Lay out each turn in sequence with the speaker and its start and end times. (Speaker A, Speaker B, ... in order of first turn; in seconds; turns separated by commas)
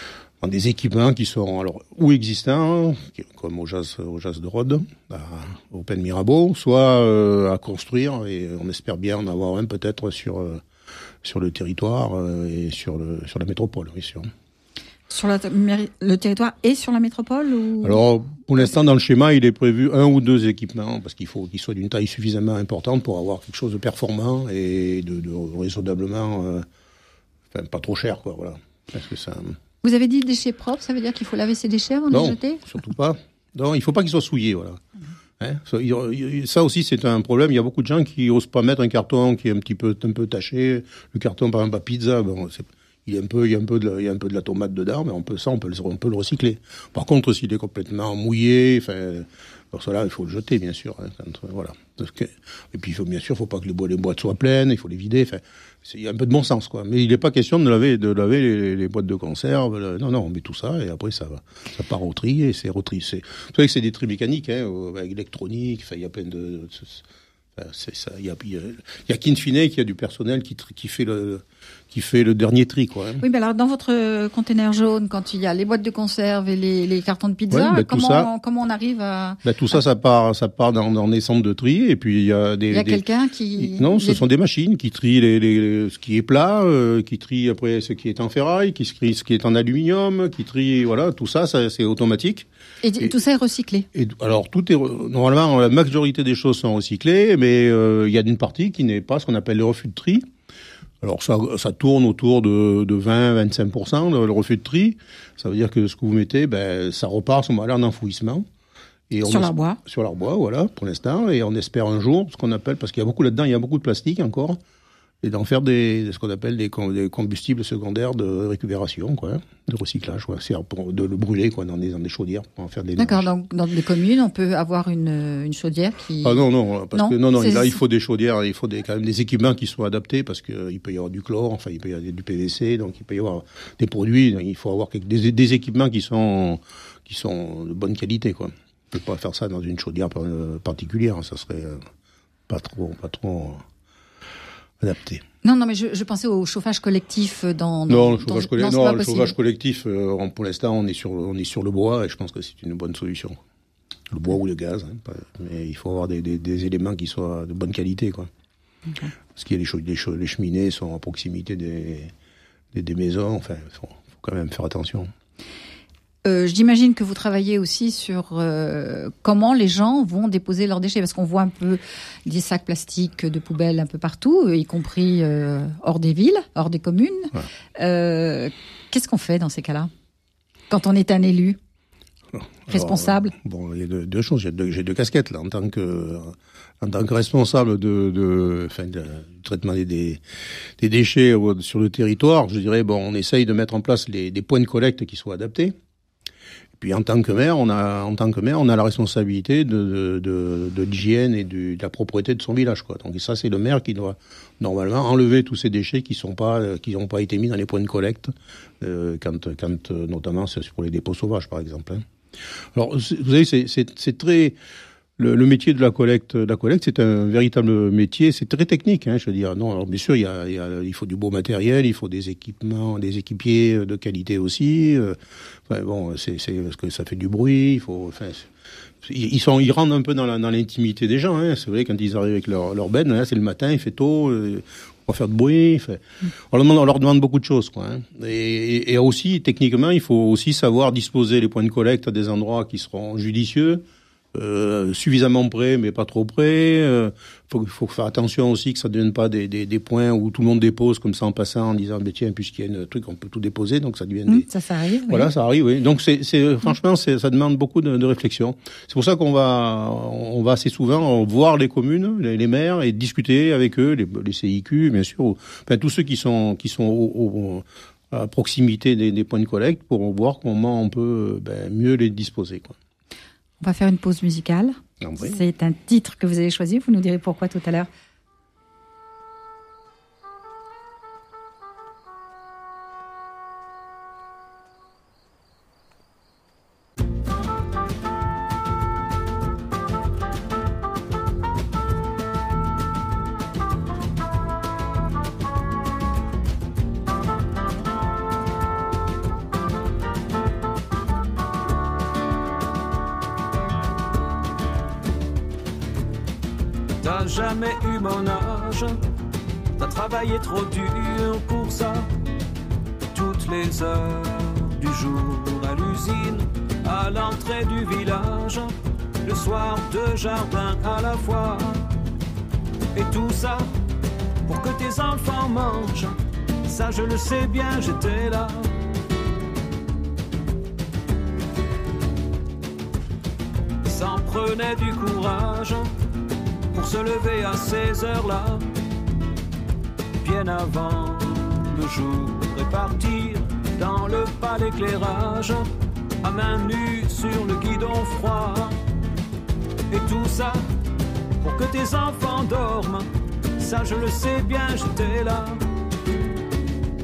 Speaker A: 0.4-10.6, Speaker A: 11.2-14.3, Speaker B: 15.1-18.0, Speaker A: 17.8-26.7, Speaker A: 27.5-29.6, Speaker B: 29.8-32.7, Speaker A: 32.1-34.8, Speaker A: 35.4-67.0, Speaker A: 67.6-73.2, Speaker B: 73.2-79.4, Speaker A: 77.5-78.3, Speaker A: 79.4-83.0, Speaker B: 82.7-84.2, Speaker A: 83.6-92.5, Speaker B: 92.8-93.9, Speaker A: 93.9-100.2, Speaker A: 101.0-108.5, Speaker A: 109.1-114.6, Speaker B: 109.2-109.8, Speaker A: 115.2-123.3, Speaker B: 123.0-127.8, Speaker A: 126.2-141.8, Speaker A: 142.5-143.6, Speaker A: 144.8-145.2, Speaker B: 145.4-149.3, Speaker A: 147.9-153.4, Speaker A: 154.1-158.3, Speaker A: 159.3-162.1, Speaker A: 162.7-165.1, Speaker B: 166.2-179.9, Speaker B: 180.7-181.6, Speaker A: 182.3-195.8, Speaker B: 182.7-183.3, Speaker A: 196.8-212.0, Speaker A: 212.8-214.6, Speaker A: 215.2-225.2, Speaker A: 225.7-228.5, Speaker A: 229.0-243.8, Speaker A: 244.3-254.5, Speaker B: 254.3-255.3, Speaker A: 255.1-272.8, Speaker B: 273.6-277.9, Speaker A: 275.0-275.4, Speaker C: 307.0-309.0, Speaker C: 309.8-312.1, Speaker C: 313.1-322.0, Speaker C: 322.9-323.7, Speaker C: 324.5-328.7, Speaker C: 333.8-335.9, Speaker C: 336.7-338.7, Speaker C: 340.2-345.7, Speaker C: 346.2-348.8, Speaker C: 349.9-350.6, Speaker C: 351.4-355.7